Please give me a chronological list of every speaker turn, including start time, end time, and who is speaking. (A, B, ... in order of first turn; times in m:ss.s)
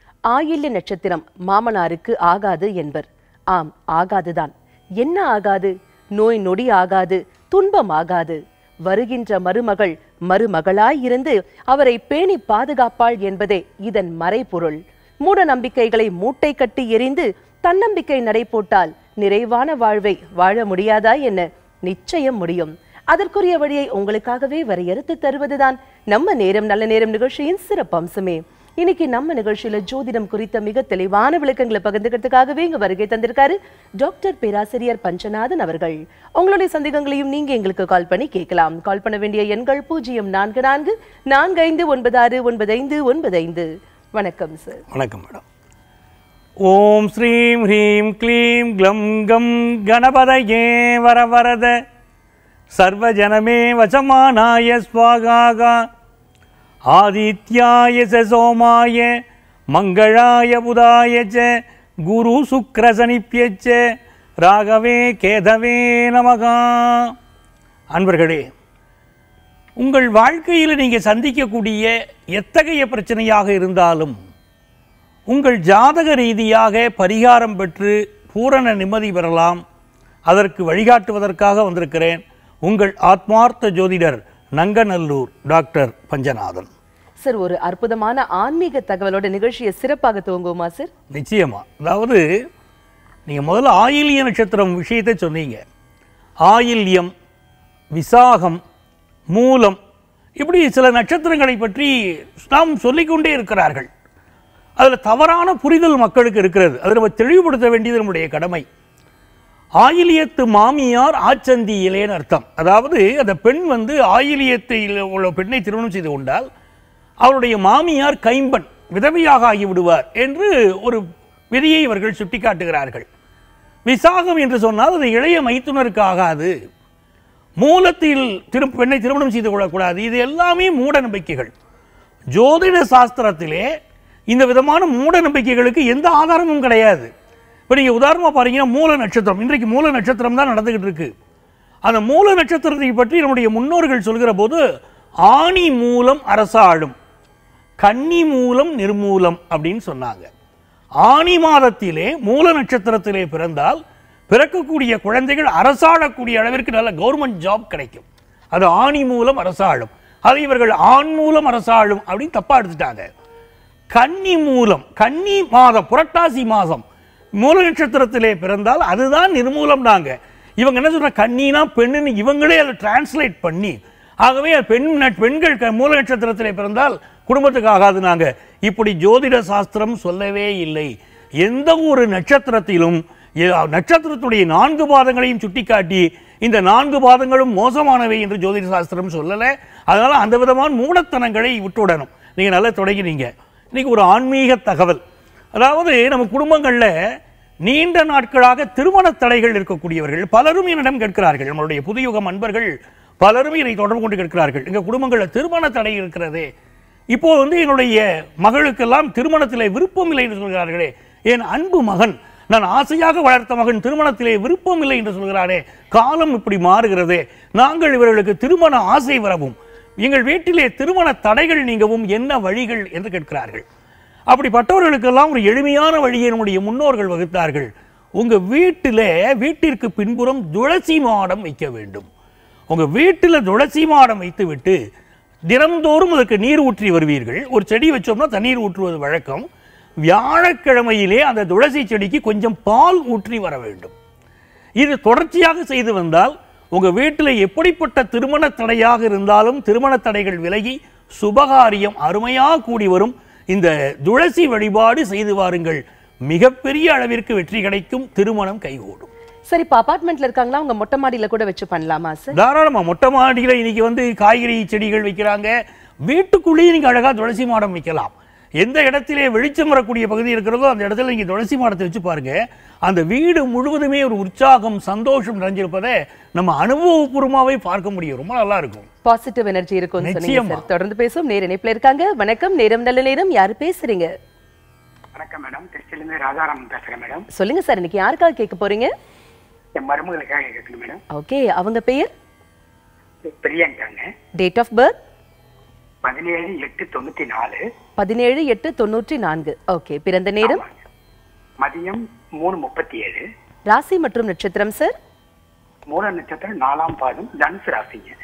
0:00.3-0:44.8 A
0:44.9-0:45.4 B
0:46.6-0:51.8 B
0:52.7-0:55.9 B
0:56.9-0:59.2 B
0:59.7-1:01.5 B
1:02.0-1:03.8 B
1:04.4-1:07.2 B
1:07.9-1:08.5 B
1:09.8-1:14.2 B
1:15.3-1:19.6 B
1:20.3-1:26.7 B
1:27.2-1:30.9 A
1:31.1-1:32.2 B
1:33.3-1:35.6 B
1:36.4-1:37.1 B
1:38.0-1:38.6 B
1:39.3-1:39.8 B
1:40.4-1:43.9 B
1:44.8-1:48.6 B
1:49.8-1:56.5 B
1:57.2-2:03.1 B
2:03.9-2:06.6 B
2:07.6-2:11.5 B
2:12.4-2:13.7 B
2:14.3-2:17.1 B
2:17.7-2:21.1 B
2:21.9-2:24.6 B
2:25.3-2:27.0 B
2:27.8-2:30.3 B
2:31.0-2:43.1 B
2:43.9-2:46.8 B
2:47.4-3:15.0 B
3:15.6-3:16.9 B
3:17.6-3:26.5 B
3:27.1-3:43.6 B
3:44.3-3:52.1 B
3:52.7-3:54.8 B
3:55.5-3:59.5 B
4:00.0-4:03.9 B
4:04.8-4:19.1 B
4:19.5-4:22.4 A
4:22.3-4:25.5 B
4:26.1-4:38.9 B
4:39.0-4:44.1 A
4:40.0-4:40.6 B
4:45.2-4:47.3 C
4:47.3-4:48.9 A
4:49.8-4:51.0 C
4:51.1-4:52.1 A
4:53.2-4:54.1 C
4:54.4-4:55.0 A
4:56.0-4:57.6 C
4:58.0-5:00.6 A
5:00.4-5:00.7 C
5:01.6-5:03.2 C
5:03.7-5:04.9 A
5:05.9-5:08.2 C